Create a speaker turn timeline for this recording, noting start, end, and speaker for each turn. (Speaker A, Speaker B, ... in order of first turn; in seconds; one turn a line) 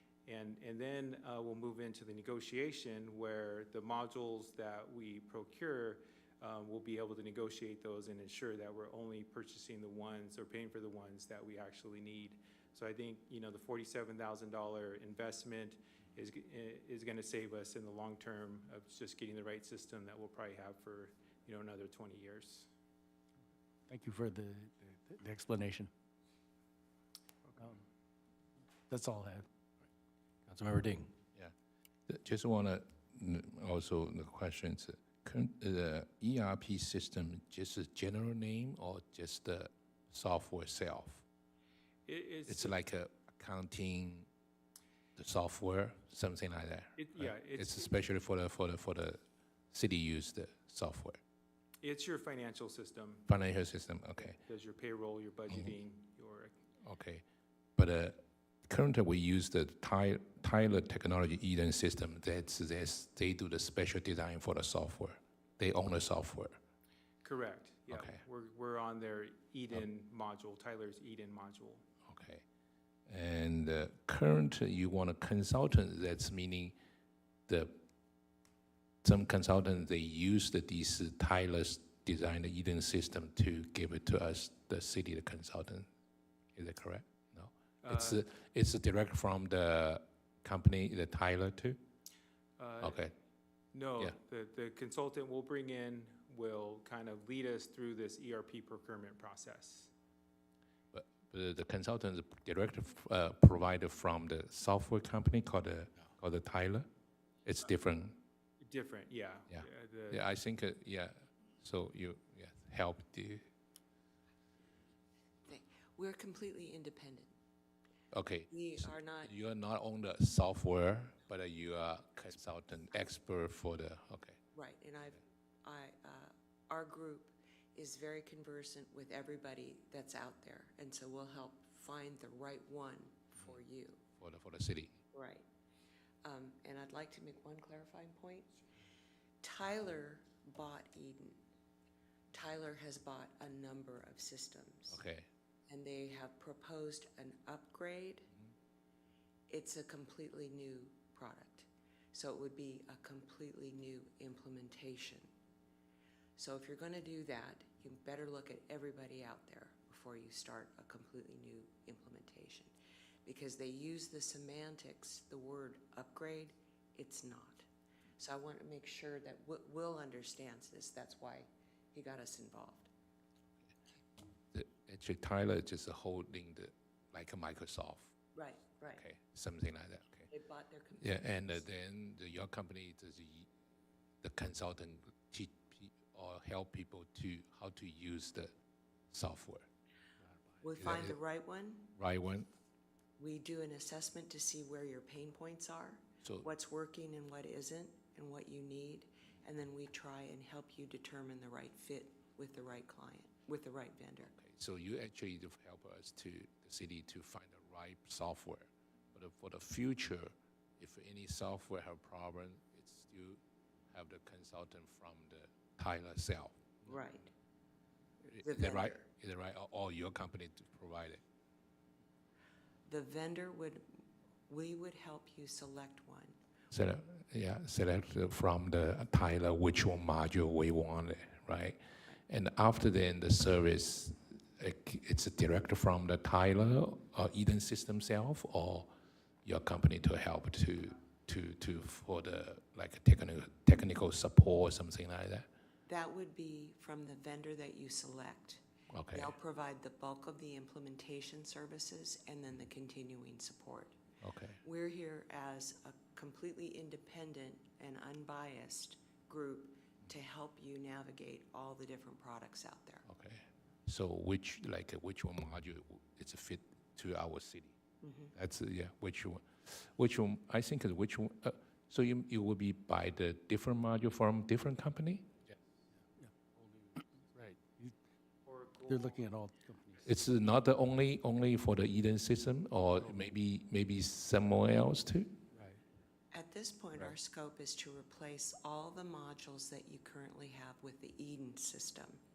Speaker A: 0.2-22.7
Speaker B: 23.9-25.9
Speaker A: 27.4-27.8
Speaker B: 28.9-29.5
Speaker B: 30.4-31.1
Speaker C: 32.1-41.2
Speaker A: 42.0-42.7
Speaker C: 42.5-44.3
Speaker C: 45.1-49.2
Speaker A: 47.0-47.9
Speaker C: 49.7-51.2
Speaker A: 51.8-53.2
Speaker C: 53.2-54.4
Speaker A: 54.4-56.5
Speaker C: 56.8-57.2
Speaker C: 57.8-66.5
Speaker A: 67.2-71.8
Speaker C: 67.9-68.2
Speaker C: 72.1-72.4
Speaker C: 73.1-76.8
Speaker C: 77.5-77.8
Speaker C: 79.0-85.9
Speaker C: 86.5-91.8
Speaker A: 87.8-88.2
Speaker A: 92.6-93.0
Speaker C: 92.8-93.1
Speaker A: 93.7-99.9
Speaker C: 100.9-106.9
Speaker C: 107.4-108.2
Speaker A: 108.6-110.2
Speaker C: 109.5-113.5
Speaker D: 115.5-117.3
Speaker C: 118.1-124.4
Speaker D: 118.5-119.3
Speaker D: 124.5-134.0
Speaker C: 134.2-135.0
Speaker D: 135.1-135.4
Speaker D: 136.2-138.5
Speaker D: 139.4-141.4
Speaker D: 142.3-145.0
Speaker C: 144.9-145.3
Speaker D: 145.7-148.3
Speaker D: 149.5-155.3
Speaker D: 156.4-162.7
Speaker D: 163.2-167.6
Speaker D: 168.2-172.9
Speaker C: 174.5-178.1
Speaker D: 178.3-179.0
Speaker C: 178.8-180.3
Speaker D: 180.3-181.6
Speaker C: 181.0-183.5
Speaker C: 184.2-188.5
Speaker C: 189.1-189.6
Speaker B: 190.2-190.6
Speaker D: 190.6-191.9
Speaker C: 190.8-191.2
Speaker C: 191.9-192.5
Speaker D: 193.2-204.3
Speaker C: 196.2-196.5
Speaker C: 204.2-213.4
Speaker C: 213.9-217.0
Speaker D: 216.9-217.3
Speaker C: 218.3-221.2
Speaker D: 218.4-219.0
Speaker D: 222.8-223.8
Speaker D: 224.5-226.4
Speaker C: 226.7-238.9
Speaker C: 239.4-245.5
Speaker D: 245.8-254.0
Speaker C: 248.9-249.3
Speaker C: 254.2-254.6
Speaker D: 254.6-263.1
Speaker C: 263.1-267.8
Speaker D: 268.0-268.3
Speaker C: 268.3-275.4
Speaker B: 276.0-277.9
Speaker A: 278.4-279.2
Speaker B: 278.9-280.1
Speaker C: 280.0-285.4
Speaker B: 285.5-285.8
Speaker D: 286.3-292.2